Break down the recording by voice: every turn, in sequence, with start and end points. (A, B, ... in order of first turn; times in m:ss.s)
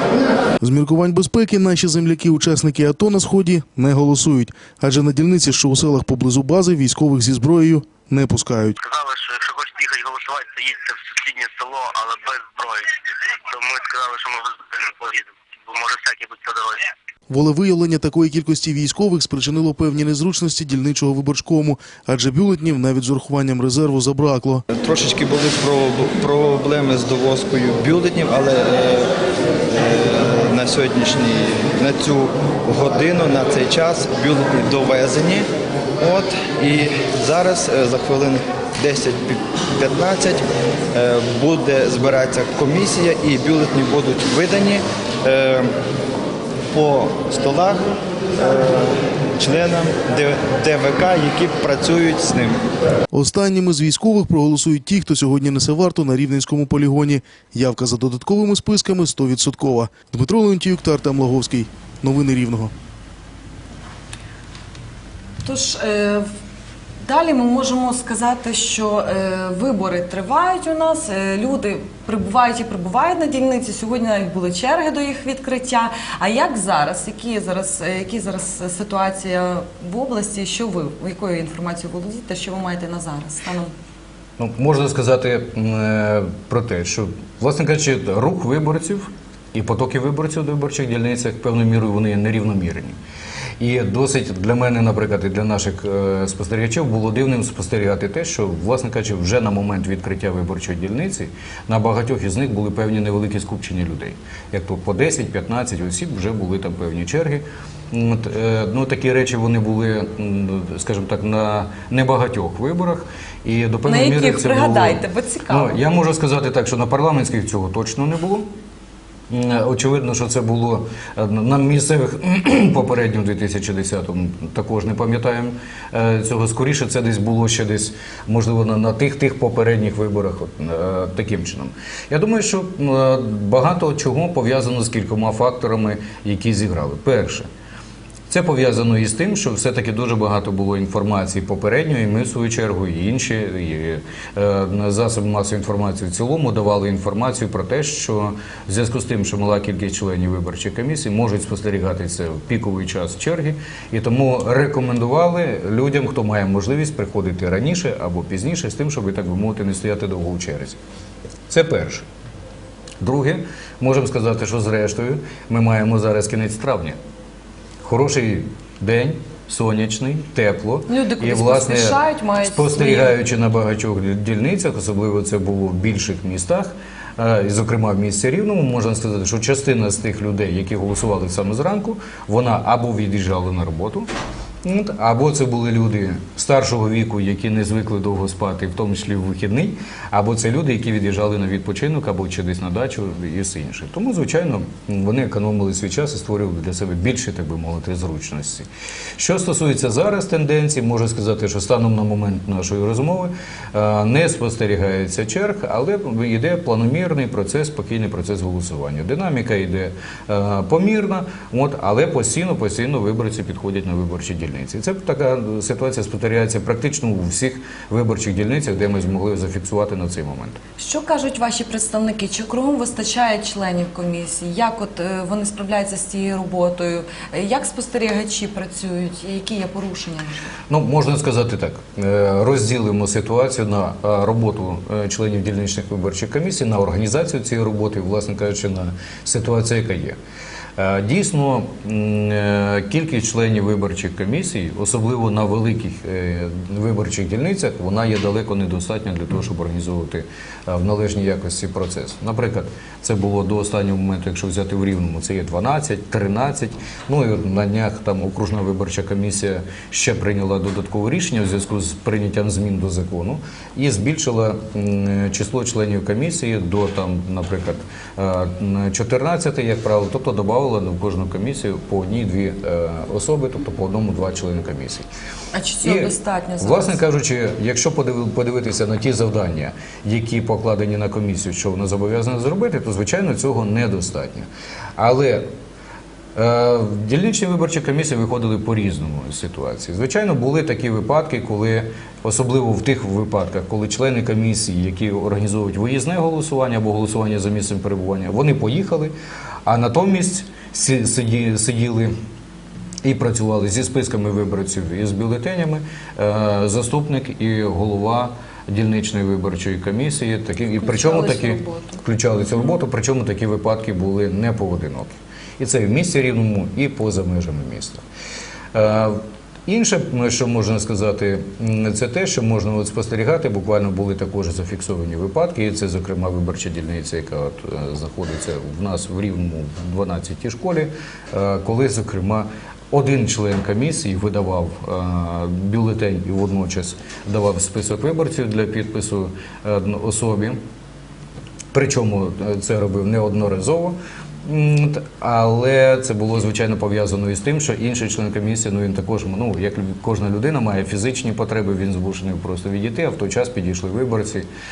0:00.6-0:08.8 A
0:08.8-0:16.8 B
0:17.3-0:24.6 A
0:24.7-0:29.1 C
0:29.7-0:45.8 C
0:46.7-0:52.6 C
0:53.1-1:02.7 A
1:05.4-1:06.3 D
1:07.0-1:23.7 D
1:24.4-1:33.0 E
1:33.6-1:58.5 E
1:53.8-1:55.8 D
1:59.3-2:17.5 E
2:18.3-2:40.8 E
2:41.5-2:42.0 E
2:43.0-2:47.0 E
2:47.8-3:04.1 E
2:50.9-2:53.1 D
3:04.6-3:18.7 E
3:19.2-3:40.6 E
3:40.8-3:50.5 D
3:50.7-4:00.2 E
4:00.8-4:35.1 E
4:35.5-4:37.0 D
4:35.8-4:45.5 E
4:46.4-4:59.1 E
4:59.7-5:02.1 E
5:03.0-5:18.0 E
5:10.8-5:12.0 D
5:18.7-5:40.6 E
5:41.7-5:54.5 E